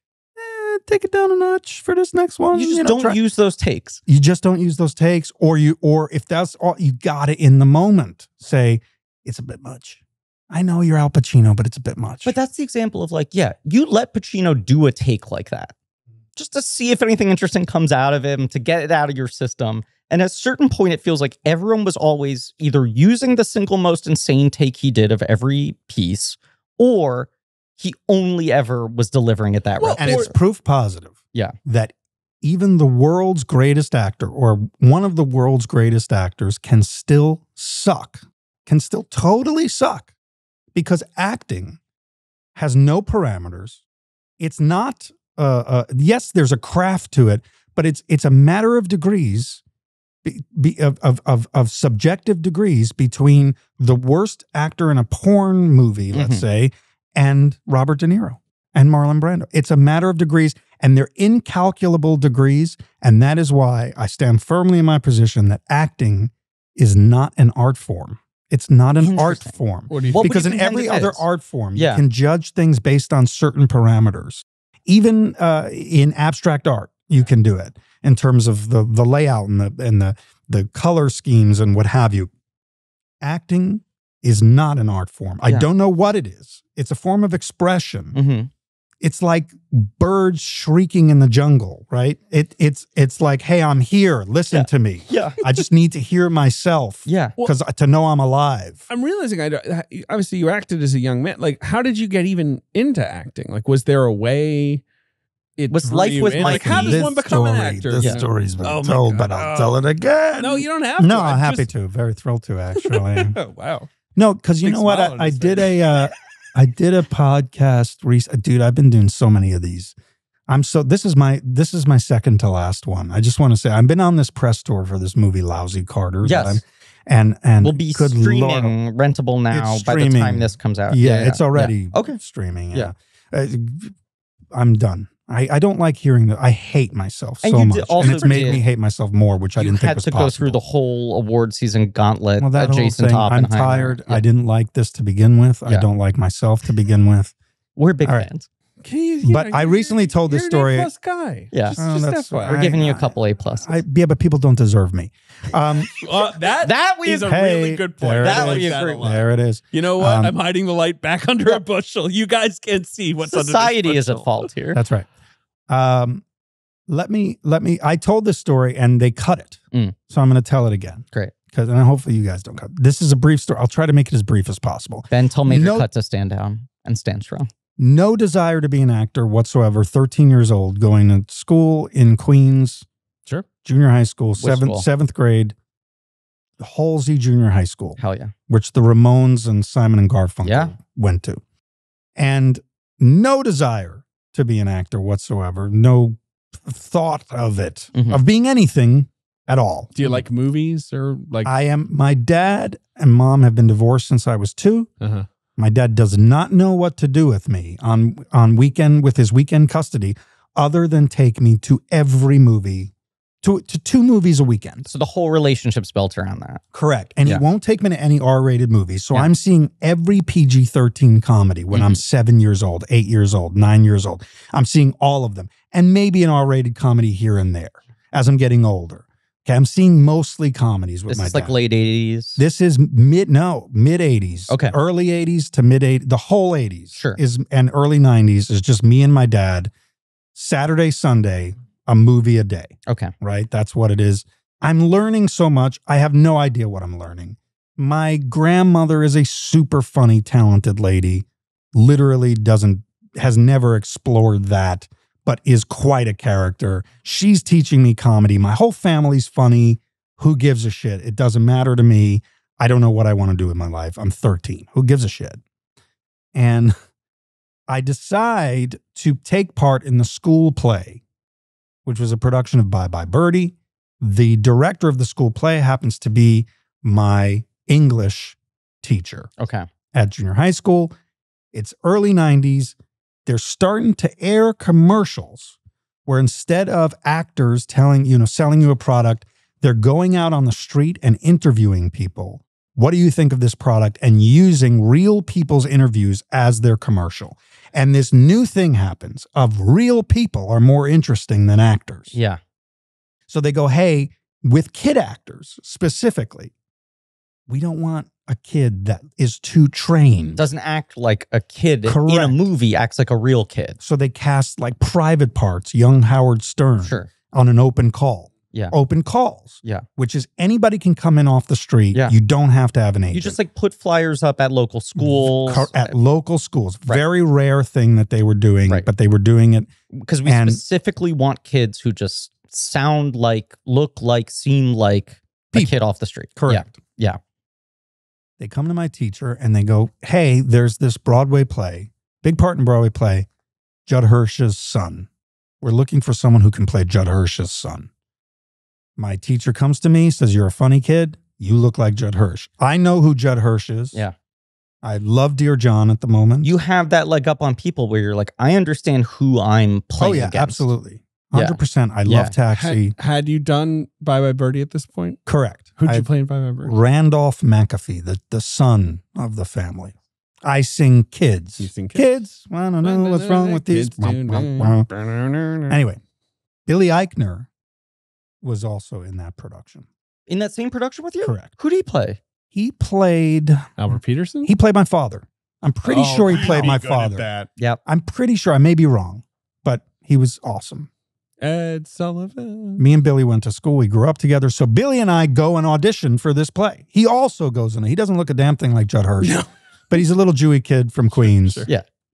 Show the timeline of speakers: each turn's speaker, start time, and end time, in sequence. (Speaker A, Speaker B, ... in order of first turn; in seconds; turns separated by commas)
Speaker A: 0.4-3.2, Speaker B: 2.5-4.0, Speaker A: 4.1-12.4, Speaker B: 12.2-15.7, Speaker B: 16.4-30.4, Speaker C: 29.8-30.3, Speaker A: 30.0-40.1, Speaker A: 40.8-41.8, Speaker A: 42.5-43.8, Speaker A: 44.4-49.6, Speaker A: 50.2-82.3, Speaker B: 56.1-56.4, Speaker B: 69.0-69.5, Speaker C: 69.9-70.4, Speaker B: 70.1-71.2, Speaker B: 71.8-72.0, Speaker A: 83.2-88.2, Speaker B: 88.1-88.5, Speaker A: 89.0-98.9, Speaker B: 94.5-95.4, Speaker B: 97.1-97.3, Speaker C: 98.9-104.8, Speaker C: 105.6-109.8, Speaker B: 105.7-107.0, Speaker A: 106.4-113.4, Speaker C: 110.4-111.7, Speaker C: 112.8-113.9, Speaker A: 114.2-120.0, Speaker C: 114.6-116.0, Speaker A: 120.5-128.7, Speaker B: 126.2-126.6, Speaker B: 127.6-132.2, Speaker A: 129.5-133.9, Speaker A: 134.5-140.6, Speaker B: 137.4-138.6, Speaker C: 138.0-138.5, Speaker B: 139.6-144.2, Speaker A: 142.4-147.3, Speaker B: 147.8-148.5, Speaker A: 148.0-148.3, Speaker C: 148.8-152.6, Speaker A: 149.2-150.9, Speaker B: 151.5-151.8, Speaker A: 151.8-155.9, Speaker B: 152.3-153.7, Speaker C: 155.9-164.5, Speaker B: 156.6-157.3, Speaker A: 157.3-160.3, Speaker B: 158.2-159.1, Speaker B: 163.2-164.8, Speaker A: 164.7-165.1, Speaker A: 165.7-166.2, Speaker A: 166.9-175.9, Speaker B: 175.1-177.5, Speaker A: 177.8-182.9, Speaker A: 183.6-185.6, Speaker B: 184.4-184.8, Speaker A: 186.6-191.4, Speaker B: 188.0-188.3, Speaker B: 190.4-190.7, Speaker A: 192.2-199.9, Speaker B: 197.9-198.2, Speaker C: 199.9-201.5, Speaker A: 201.4-204.9, Speaker C: 205.0-205.3, Speaker A: 205.6-214.9, Speaker B: 214.9-216.6, Speaker A: 216.7-231.5, Speaker B: 221.7-222.0, Speaker B: 231.1-232.4, Speaker A: 232.4-239.7, Speaker B: 234.5-234.8, Speaker B: 236.9-237.2, Speaker A: 240.3-265.4, Speaker B: 242.9-243.1, Speaker A: 266.3-266.7, Speaker A: 267.7-271.0, Speaker A: 271.9-279.3, Speaker B: 279.4-279.7, Speaker A: 279.9-280.9, Speaker A: 281.5-282.8, Speaker A: 283.3-285.6, Speaker A: 286.1-302.1, Speaker B: 302.1-302.4, Speaker A: 303.3-306.5, Speaker A: 307.5-310.4, Speaker B: 310.4-313.8, Speaker A: 311.9-312.5, Speaker A: 313.8-323.4, Speaker B: 316.8-317.1, Speaker B: 323.1-325.9, Speaker A: 325.0-329.7, Speaker B: 329.9-337.2, Speaker A: 330.2-330.6, Speaker A: 336.4-336.8, Speaker A: 338.4-343.3, Speaker A: 343.9-345.1, Speaker A: 345.6-347.9, Speaker A: 349.0-354.0, Speaker A: 354.8-356.6, Speaker B: 356.4-360.7, Speaker A: 360.0-362.9, Speaker B: 361.3-362.3, Speaker C: 362.5-365.2, Speaker A: 365.3-366.1, Speaker C: 365.8-366.8, Speaker A: 366.6-374.9, Speaker C: 371.6-372.1, Speaker C: 372.8-375.8, Speaker A: 375.7-376.0, Speaker A: 376.7-377.5, Speaker A: 378.4-379.9, Speaker B: 380.3-382.2, Speaker A: 381.2-381.5, Speaker A: 382.5-383.8, Speaker C: 383.8-384.5, Speaker A: 384.4-387.3, Speaker C: 385.9-387.5, Speaker B: 386.4-386.7, Speaker A: 387.9-390.9, Speaker C: 391.4-392.8, Speaker A: 392.8-401.7, Speaker C: 399.2-399.5, Speaker C: 401.2-401.7